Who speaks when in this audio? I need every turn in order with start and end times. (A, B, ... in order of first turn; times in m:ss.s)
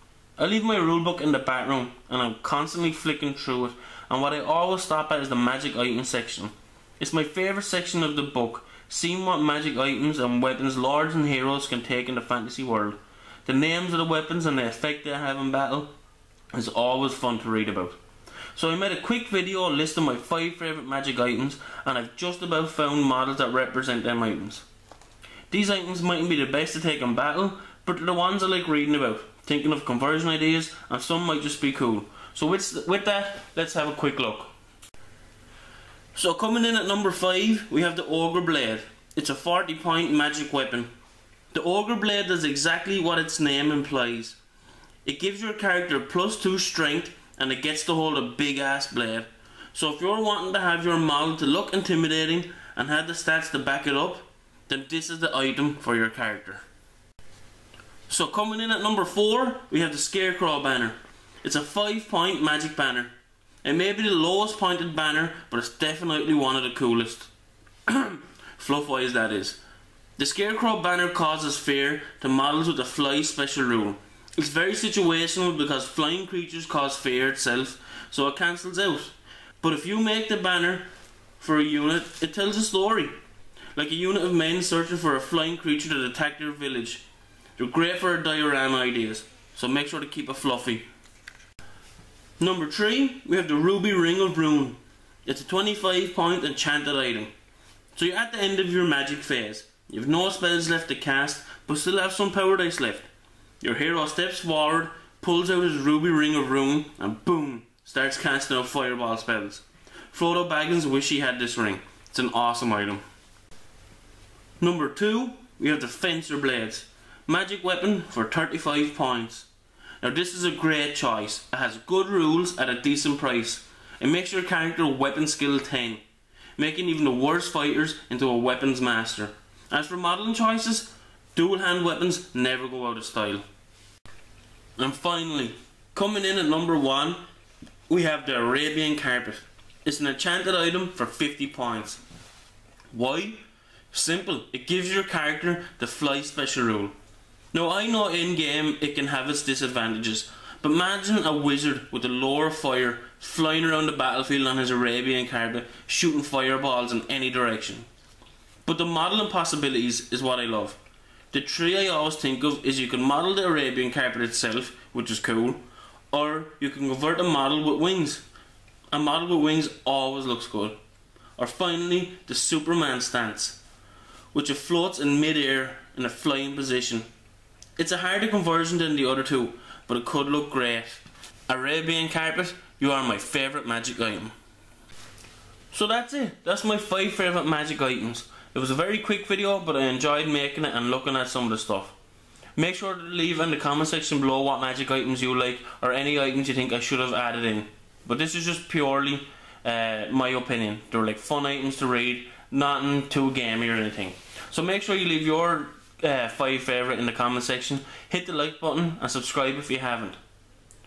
0:00.4-0:15.9 A
0:16.5-0:18.0 A
0:18.5-0:24.6 A
0:25.5-0:34.5 A
0:36.1-0:40.9 A
0:41.5-0:44.4 A
0:45.0-0:56.6 A
0:58.1-1:07.3 A
1:07.9-1:09.6 A
1:10.2-1:20.9 A
1:21.4-1:23.1 A
1:23.8-1:27.0 A
1:27.6-1:30.8 A
1:32.4-1:37.3 A
1:37.9-1:43.1 A
1:43.6-1:53.0 A
1:54.6-1:59.5 A
2:00.0-2:06.0 A
2:06.6-2:13.4 A
2:14.8-2:17.2 A
2:17.9-2:22.0 A
2:22.9-2:26.9 A
2:27.5-2:37.9 A
2:38.6-2:40.8 A
2:41.3-2:48.2 A
2:48.9-2:50.8 A
2:51.4-2:53.6 A
2:54.3-2:57.1 A
2:57.8-3:04.3 A
3:05.7-3:11.9 A
3:12.6-3:30.2 A